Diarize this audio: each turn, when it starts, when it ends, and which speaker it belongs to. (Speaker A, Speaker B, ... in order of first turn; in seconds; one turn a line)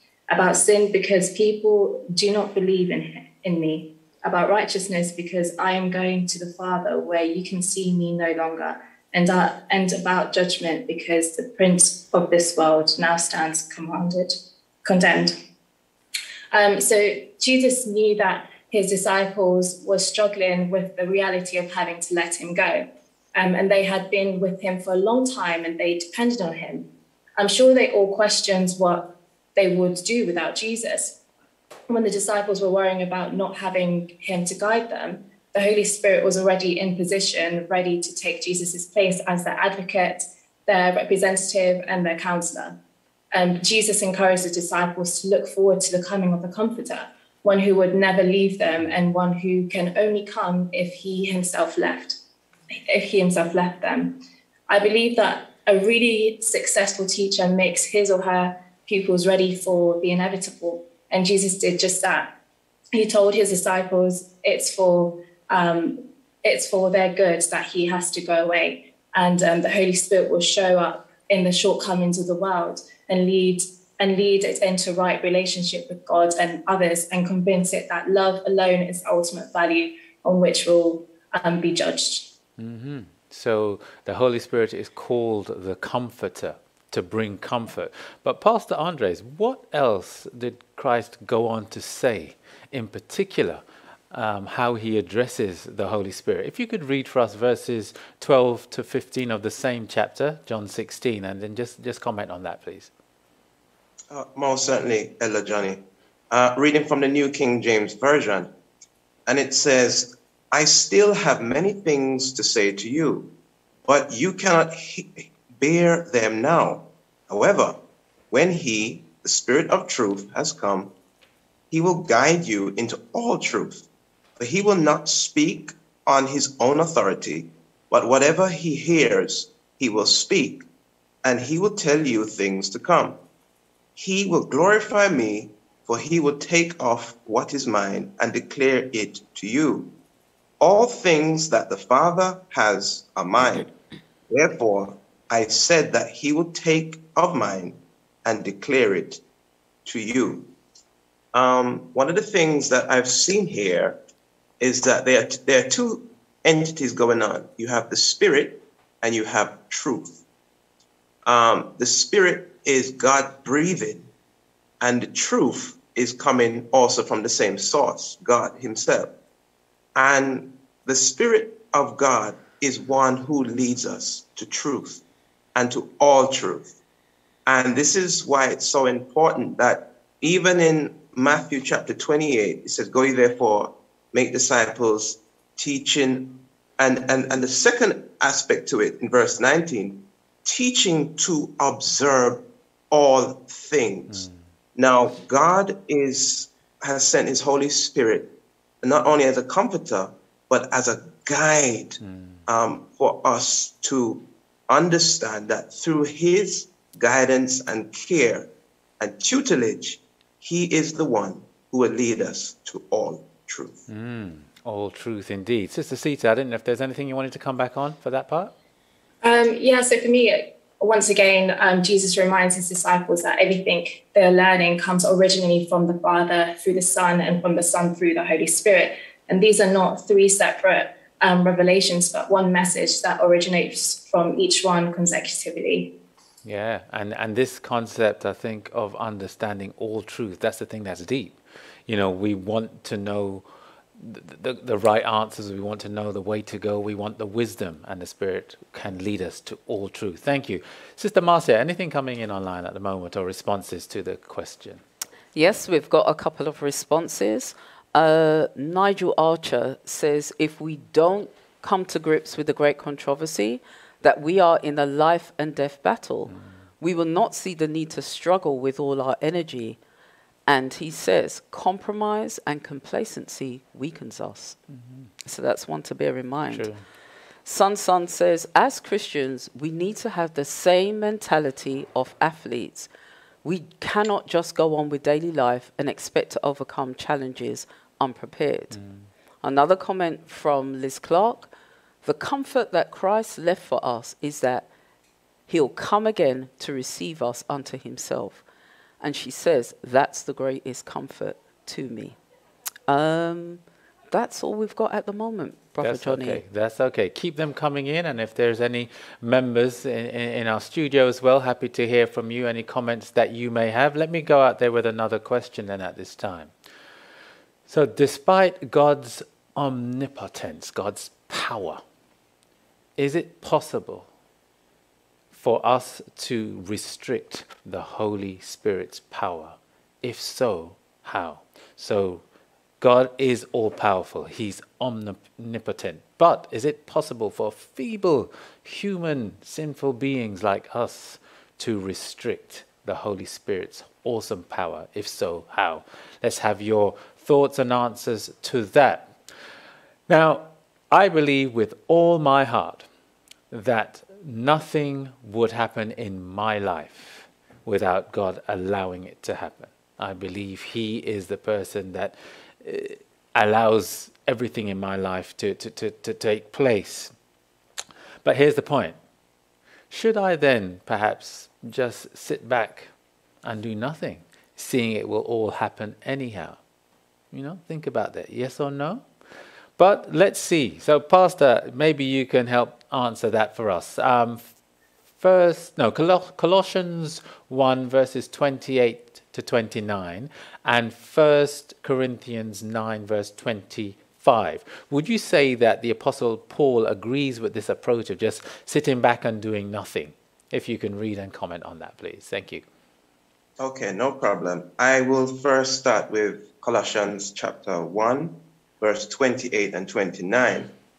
Speaker A: 0.3-15.3
Speaker A: 16.5-31.2
Speaker A: 31.9-42.8
Speaker A: 43.3-52.2
Speaker A: 52.7-62.3
Speaker A: 62.9-82.3
Speaker B: 82.6-102.9
Speaker C: 104.1-108.5
Speaker C: 109.3-113.3
Speaker C: 113.8-117.8
Speaker C: 118.3-120.9
Speaker C: 121.7-123.8
Speaker C: 124.4-130.6
Speaker C: 131.2-133.2
Speaker C: 133.9-139.9
Speaker C: 140.6-143.7
Speaker C: 144.3-149.2
Speaker C: 149.8-150.5
Speaker C: 151.3-154.0
Speaker C: 154.6-160.2
Speaker C: 161.2-164.1
Speaker C: 164.8-169.1
Speaker C: 169.9-175.0
Speaker C: 175.5-176.7
Speaker C: 177.4-194.2
Speaker B: 194.1-194.4
Speaker C: 194.8-213.8
Speaker B: 202.0-202.4
Speaker B: 213.9-218.5
Speaker A: 219.2-235.9
Speaker B: 236.4-243.4
Speaker B: 244.0-254.8
Speaker D: 255.3-269.8
Speaker D: 270.5-274.6
Speaker B: 274.8-275.1
Speaker D: 275.2-276.7
Speaker B: 276.5-276.8
Speaker D: 277.4-282.9
Speaker D: 283.4-288.8
Speaker B: 288.7-289.1
Speaker D: 289.4-291.5
Speaker D: 292.0-294.7
Speaker D: 295.5-298.4
Speaker D: 299.0-302.2
Speaker D: 302.9-306.4
Speaker B: 305.8-316.5
Speaker B: 317.7-321.8
Speaker B: 323.0-324.1
Speaker B: 325.3-332.2
Speaker B: 332.8-349.1
Speaker B: 350.1-352.9
Speaker B: 353.5-367.1
Speaker B: 368.2-369.0
Speaker B: 369.9-372.9
Speaker B: 373.4-376.6
Speaker B: 377.3-379.1
Speaker B: 379.8-384.5
Speaker B: 385.2-402.6
Speaker C: 403.6-410.7